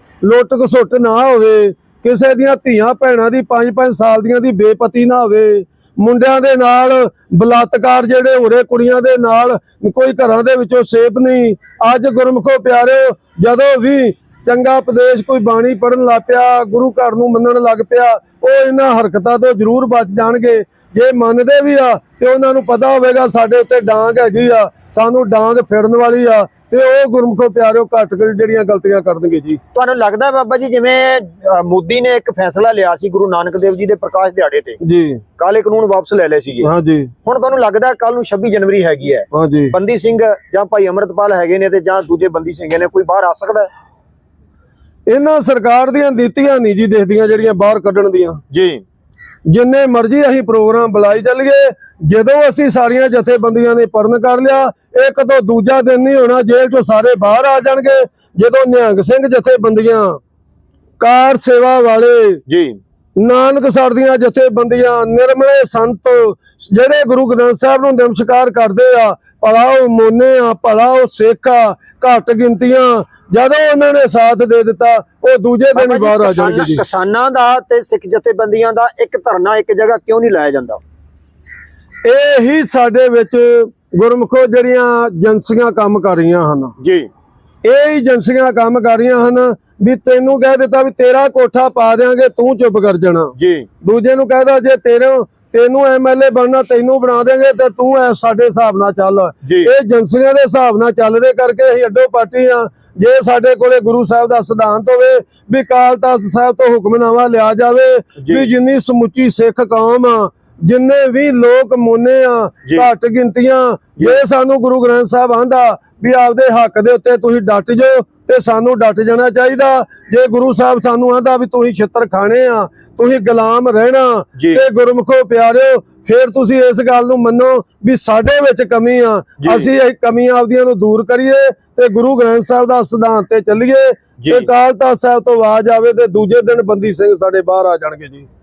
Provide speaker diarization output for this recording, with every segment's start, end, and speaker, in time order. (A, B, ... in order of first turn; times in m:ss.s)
0:00.2-0:29.6 A
0:29.8-0:34.8 B
0:34.8-0:35.2 A
0:35.4-0:36.7 B
0:36.6-0:37.1 A
0:37.2-0:43.7 B
0:39.3-0:39.8 A
0:45.1-0:48.4 A
0:48.5-0:48.8 B
0:49.5-1:00.2 A
1:01.0-1:02.4 A
1:02.5-1:02.8 B
1:03.2-1:16.8 A
1:15.8-1:20.8 B
1:22.0-1:26.7 A
1:26.8-1:27.1 B
1:27.6-2:18.3 A
1:33.4-1:33.7 B
1:39.4-1:39.7 B
1:48.2-1:48.5 B
2:04.4-2:04.6 B
2:09.4-2:09.7 B
2:14.2-2:14.5 B